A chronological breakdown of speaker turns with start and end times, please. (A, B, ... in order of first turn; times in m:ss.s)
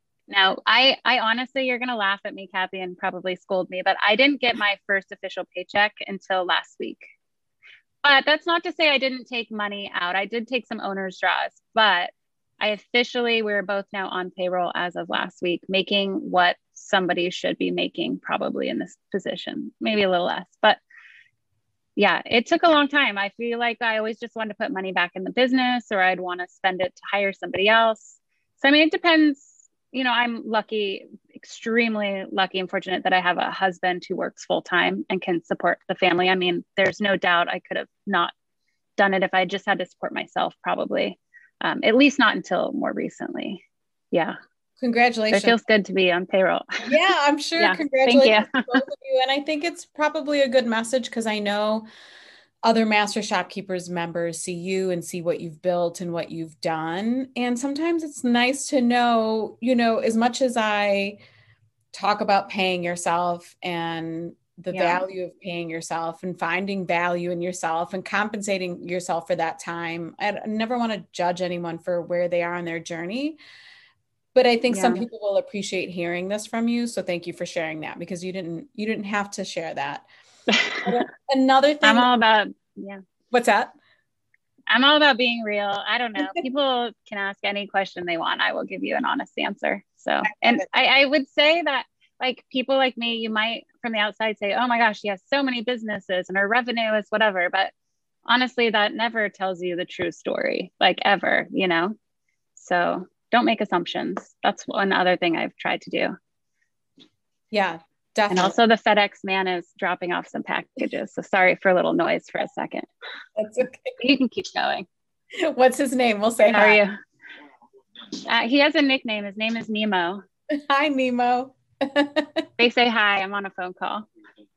0:00.3-0:07.0 A
0:08.0-0:20.8 A
0:22.0-0:38.3 A
0:39.0-0:44.4 A
0:44.8-0:45.6 B
0:45.3-0:46.8 A
0:46.8-0:51.9 B
0:47.6-0:48.8 A
0:52.6-1:01.2 B
1:01.9-1:13.4 B
1:04.7-1:05.0 A
1:14.4-1:20.1 B
1:14.7-1:15.0 A
1:20.5-1:20.9 A
1:20.8-1:22.1 B
1:21.8-1:23.0 A
1:23.3-1:23.7 B
1:24.7-1:37.7 A
1:30.3-1:30.6 B
1:38.3-1:42.0 A
1:42.6-1:46.2 A
1:47.5-1:48.6 B
1:48.3-1:52.9 A
1:53.4-1:54.0 B
1:54.0-1:54.9 A
1:55.4-1:56.8 B
1:56.4-1:57.0 A
1:58.2-2:00.2 A
2:00.5-2:02.5 B
2:02.6-2:04.1 A